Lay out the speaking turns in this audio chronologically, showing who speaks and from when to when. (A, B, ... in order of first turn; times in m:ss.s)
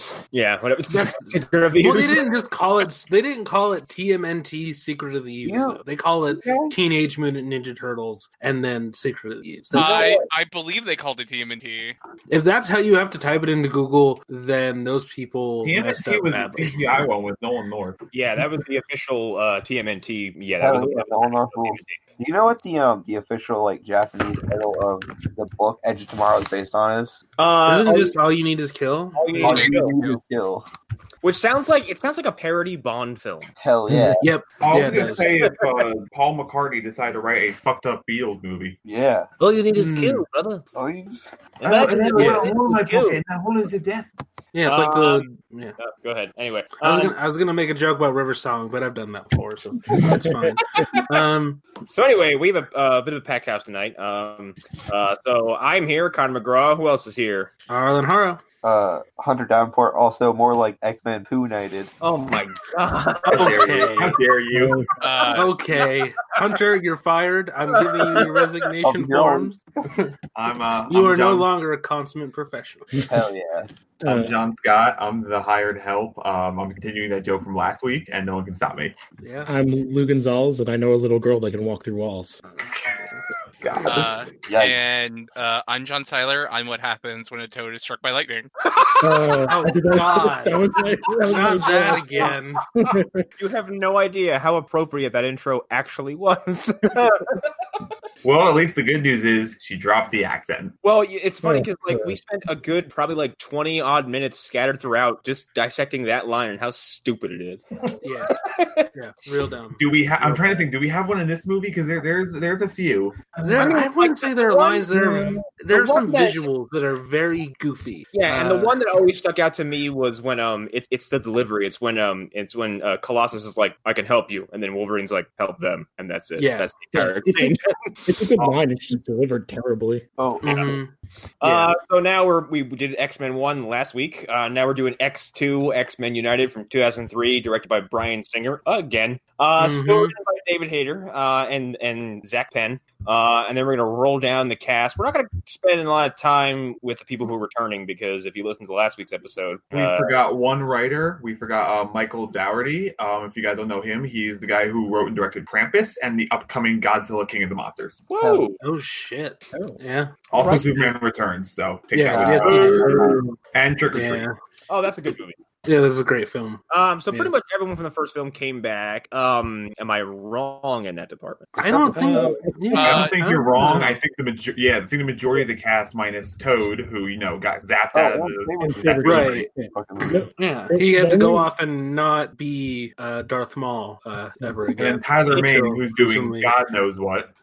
0:00.3-0:02.4 A
0:00.9-0:10.2 B
0:05.4-0:06.8 C
0:09.7-0:10.3 C
0:09.7-0:12.0 D
0:12.3-0:16.8 B
0:15.6-0:18.0 E
0:18.1-0:22.0 A
0:20.6-0:27.2 C
0:27.4-0:28.2 A
0:27.6-0:29.6 B
0:29.2-0:30.0 A
0:29.4-0:30.7 C
0:29.4-0:30.2 D
0:31.2-0:33.5 A
0:33.6-0:34.3 C
0:33.9-0:35.3 B
0:34.6-0:38.8 E
0:35.1-0:35.9 A
0:38.8-0:39.3 C
0:39.4-0:40.6 A
0:39.7-0:40.2 B
0:40.8-0:41.3 C
0:41.6-0:43.2 A
0:41.6-0:44.1 E
0:42.2-0:42.5 B
0:44.5-0:45.8 B
0:44.7-0:45.3 A
0:45.8-0:47.2 A
0:46.8-0:51.6 B
0:50.8-0:51.1 A
0:51.9-0:57.5 A
0:57.7-0:58.4 B
0:58.6-1:01.9 C
1:02.0-1:04.0 A
1:03.2-1:04.2 B
1:03.3-1:04.9 E
1:04.5-1:04.9 F
1:05.0-1:05.5 D
1:05.3-1:09.6 B
1:07.8-1:08.4 A
1:08.8-1:09.6 C
1:10.4-1:11.5 E
1:10.9-1:12.9 B
1:13.1-1:13.7 C
1:14.0-1:14.4 F
1:14.0-1:19.0 E
1:19.2-1:19.5 B
1:19.4-1:22.4 F
1:23.6-1:24.1 E
1:23.9-1:28.5 D
1:24.4-1:24.8 C
1:29.0-1:33.3 F
1:29.5-1:30.6 B
1:31.2-1:32.6 B
1:33.4-1:37.5 A
1:38.2-1:40.8 E
1:40.8-1:47.6 A
1:41.4-1:42.2 F
1:48.0-1:48.4 B
1:48.3-1:48.9 A
1:48.9-1:49.8 B
1:49.8-1:53.4 E
1:53.4-1:58.8 B
1:53.4-1:56.5 A
1:58.1-2:08.1 A
2:06.4-2:06.7 B
2:07.0-2:10.0 F
2:10.2-2:10.8 C
2:10.4-2:11.8 B
2:10.5-2:10.7 A
2:11.4-2:30.2 A
2:19.6-2:20.1 B
2:29.7-2:38.1 E
2:38.1-2:38.6 A
2:38.6-2:40.9 B
2:39.5-2:39.8 F
2:40.3-2:44.3 E
2:40.4-2:40.6 A
2:41.9-2:43.2 B
2:42.1-2:43.2 C
2:42.8-2:43.2 F
2:43.9-2:44.4 B
2:44.7-2:45.4 A
2:45.7-2:46.6 B
2:46.7-2:51.5 A
2:51.6-2:54.0 B
2:51.6-2:52.3 C
2:51.7-2:53.0 F
2:52.7-2:53.2 D
2:52.8-2:58.6 E
2:57.9-3:00.3 C
2:58.6-3:01.5 F
2:59.0-2:59.5 B
3:00.4-3:06.5 B
3:04.4-3:04.8 F
3:04.8-3:07.3 E